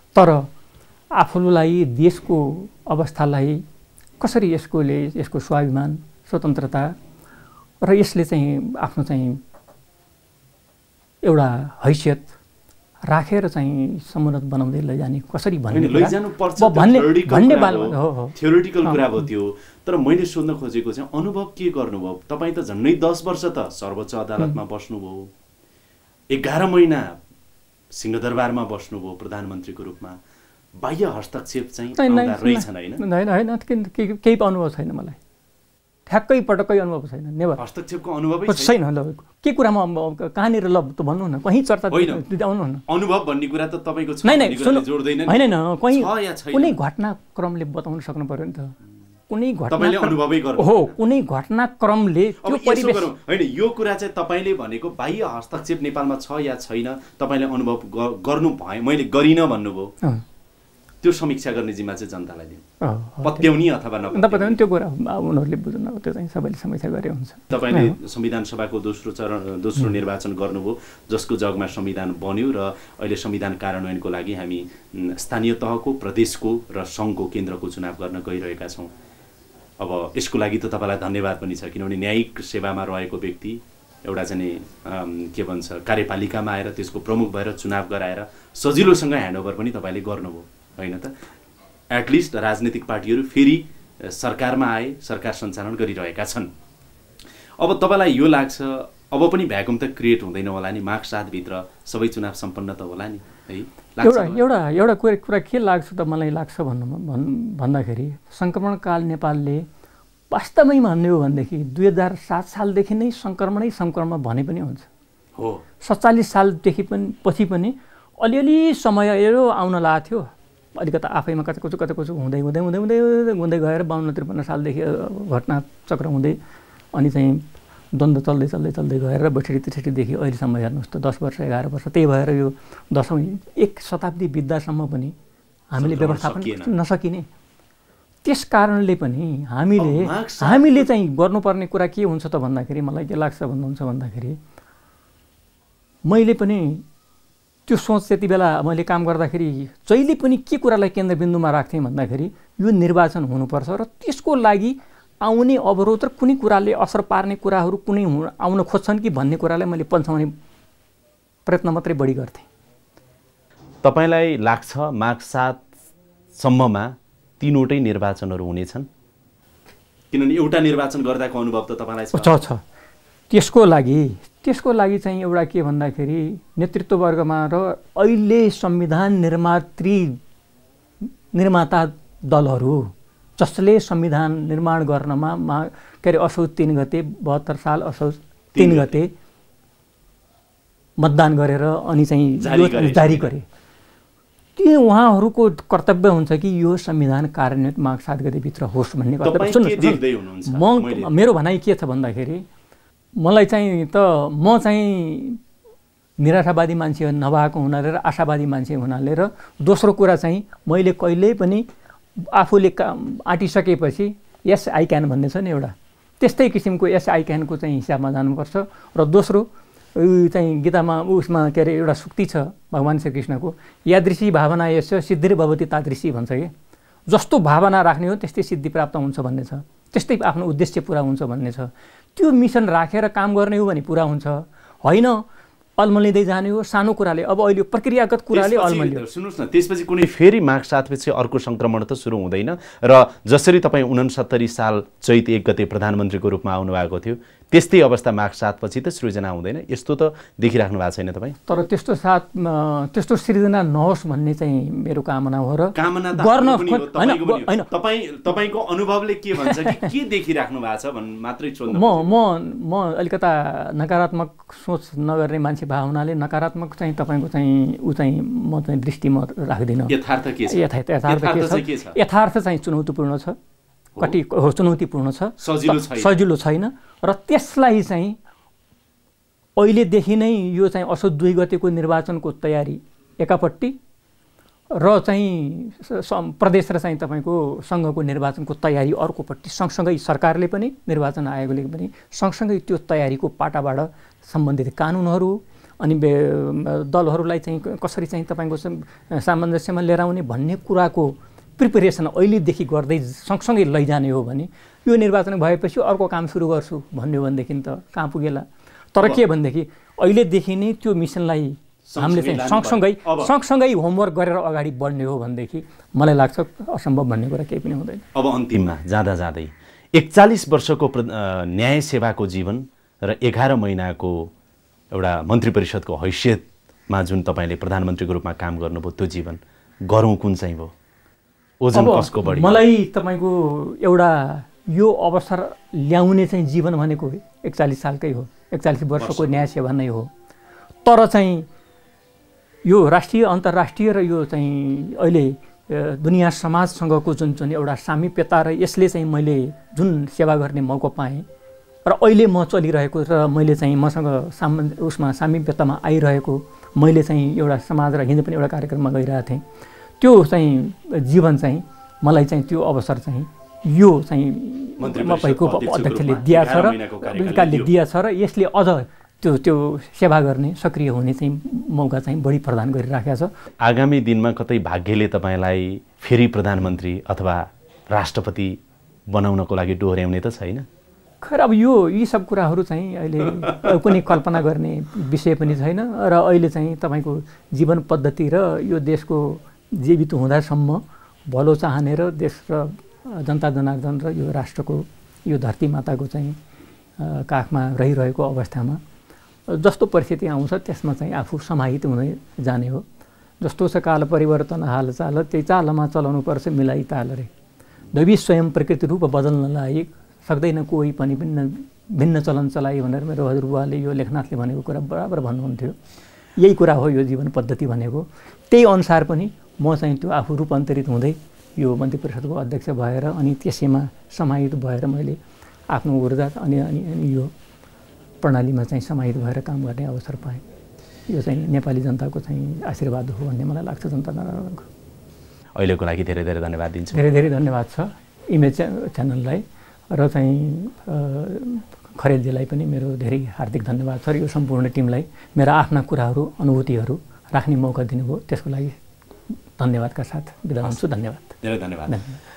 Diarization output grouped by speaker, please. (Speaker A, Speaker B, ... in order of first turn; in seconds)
Speaker A: 0.1-0.5, 1.1-3.6, 4.2-7.0, 7.8-9.4, 11.2-12.4, 13.1-19.2, 32.0-35.2, 36.1-37.6, 38.5-42.8, 44.2-48.8, 49.3-53.1, 62.8-63.5, 64.1-68.0, 104.0-109.7, 110.3-114.9, 115.8-126.4, 126.9-135.1, 135.7-137.3, 138.2-144.4, 146.1-146.8, 147.7-160.3, 161.5-162.5, 172.1-172.6, 173.3-180.2, 181.3-189.1, 191.0-193.5, 194.6-202.4, 203.2-205.4, 206.2-211.7, 212.2-226.5, 227.1-235.2, 235.8-239.1, 251.5-257.7, 259.4-259.9, 261.7-273.4, 274.0-278.2, 279.6-283.8, 284.7-318.0, 331.7-340.1, 340.9-341.5, 342.6-351.2, 351.9-359.4, 360.0-373.3, 381.2-396.4, 397.0-398.8, 399.5-402.9, 403.4-407.3, 407.9-415.8, 416.4-425.2, 425.7-427.3, 428.2-430.4, 431.1-434.7, 436.9-448.8, 449.6-452.2
Speaker B: 15.7-25.3, 26.3-27.1, 27.9-30.2, 30.8-33.0, 37.6-38.8, 41.9-42.2, 42.9-46.8, 49.7-51.0, 52.4-59.9, 61.0-62.6, 63.2-64.6, 67.5-78.9, 79.8-91.1, 91.9-96.5, 97.6-104.4, 115.4-115.6, 135.8-136.7, 139.8-140.9, 163.8-165.7, 166.3-168.9, 170.1-172.3, 188.5-188.9, 192.4-193.3, 199.2-201.1, 238.3-251.4, 255.8-262.1, 269.9-272.0, 275.4-276.1, 311.9-313.3, 318.1-324.3, 324.9-330.7, 331.6-332.6, 339.0-339.3, 364.8-367.7, 373.6-380.7, 435.6-437.2, 451.4-452.0